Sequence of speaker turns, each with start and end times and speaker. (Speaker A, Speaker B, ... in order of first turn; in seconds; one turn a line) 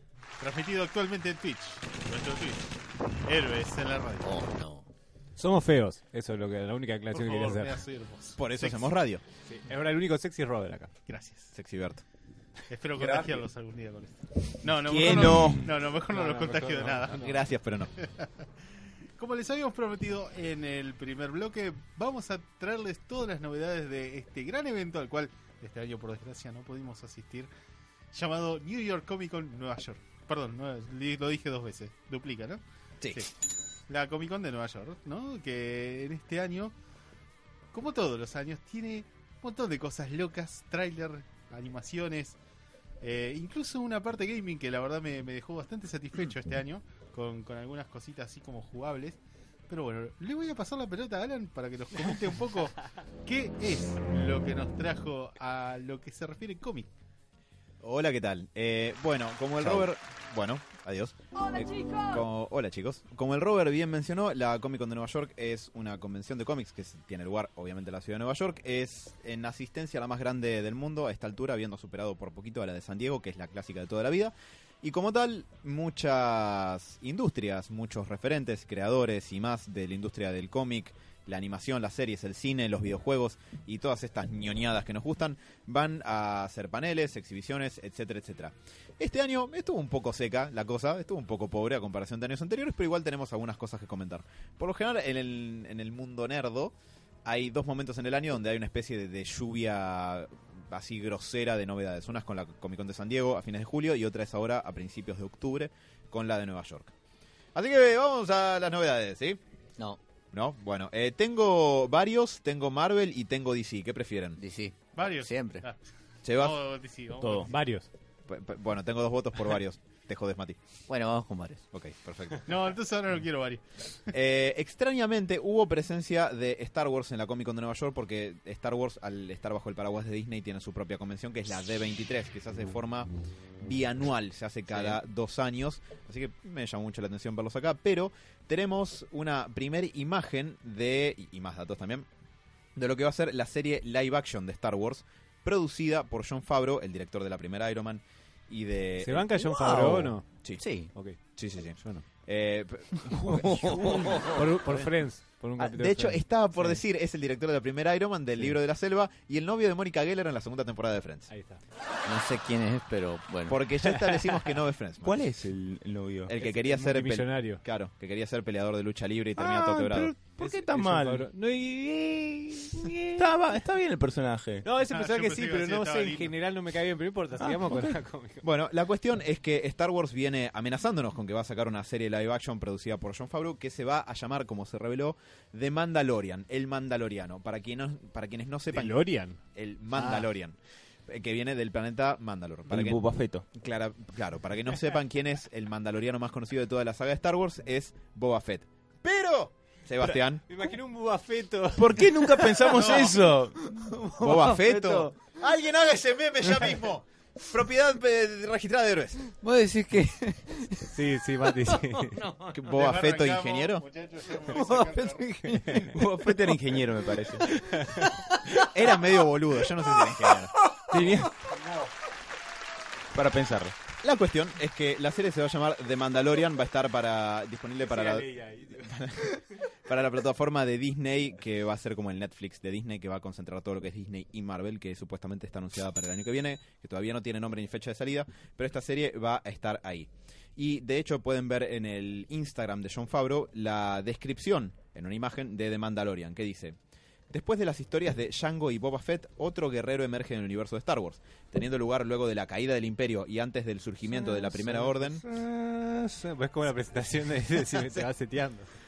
Speaker A: 0.4-2.7
Speaker A: 3.2-4.3
Speaker B: 4.2-4.8
Speaker C: 5.3-7.8
Speaker A: 7.1-8.9
Speaker D: 8.4-9.2
Speaker C: 9.5-10.9
Speaker A: 11.1-11.5
Speaker D: 11.5-12.0
Speaker A: 12.7-17.3
Speaker E: 13.0-13.4
Speaker E: 14.8-15.7
Speaker C: 16.1-17.4
Speaker D: 17.1-17.9
Speaker A: 18.0-18.3
Speaker A: 19.2-27.5
Speaker A: 28.1-32.6
Speaker A: 33.9-36.7
Speaker A: 37.7-42.4
Speaker A: 43.0-56.9
Speaker D: 57.8-96.7
Speaker D: 97.2-106.9
Speaker D: 107.5-109.4
Speaker D: 110.3-114.4
Speaker B: 114.4-115.6
Speaker A: 115.0-115.8
Speaker D: 116.2-116.6
Speaker A: 116.3-117.6
Speaker E: 117.2-117.5
Speaker C: 117.5-117.9
Speaker D: 118.3-120.6
Speaker B: 120.9-121.6
Speaker D: 121.7-122.4
Speaker A: 122.5-123.6
Speaker D: 124.1-142.1
Speaker D: 142.8-150.6
Speaker C: 149.0-150.2
Speaker B: 150.6-150.9
Speaker C: 150.8-151.2
Speaker D: 151.3-154.2
Speaker C: 151.8-152.0
Speaker C: 153.3-156.8
Speaker D: 155.6-161.3
Speaker C: 161.3-161.6
Speaker B: 162.1-163.6
Speaker D: 163.5-165.2
Speaker E: 165.0-166.3
Speaker D: 166.3-170.1
Speaker C: 166.4-167.6
Speaker E: 169.4-171.3
Speaker C: 170.4-173.2
Speaker E: 173.2-174.7
Speaker C: 174.6-178.4
Speaker A: 174.8-176.3
Speaker E: 177.4-177.9
Speaker D: 178.4-189.0
Speaker C: 188.7-189.4
Speaker D: 189.5-193.0
Speaker C: 189.9-190.2
Speaker E: 192.7-193.4
Speaker D: 193.5-200.4
Speaker C: 200.0-202.5
Speaker E: 201.8-203.7
Speaker A: 202.7-203.3
Speaker D: 204.2-209.2
Speaker B: 209.4-210.9
Speaker C: 210.9-212.3
Speaker B: 211.9-212.3
Speaker D: 212.5-213.8
Speaker A: 212.7-215.3
Speaker B: 214.4-216.0
Speaker C: 215.5-215.9
Speaker E: 215.9-217.5
Speaker C: 217.7-218.1
Speaker D: 218.6-220.5
Speaker E: 220.9-221.3
Speaker C: 220.9-221.9
Speaker E: 223.1-223.7
Speaker D: 224.0-246.8
Speaker C: 227.8-229.0
Speaker D: 247.3-255.2
Speaker C: 254.3-258.7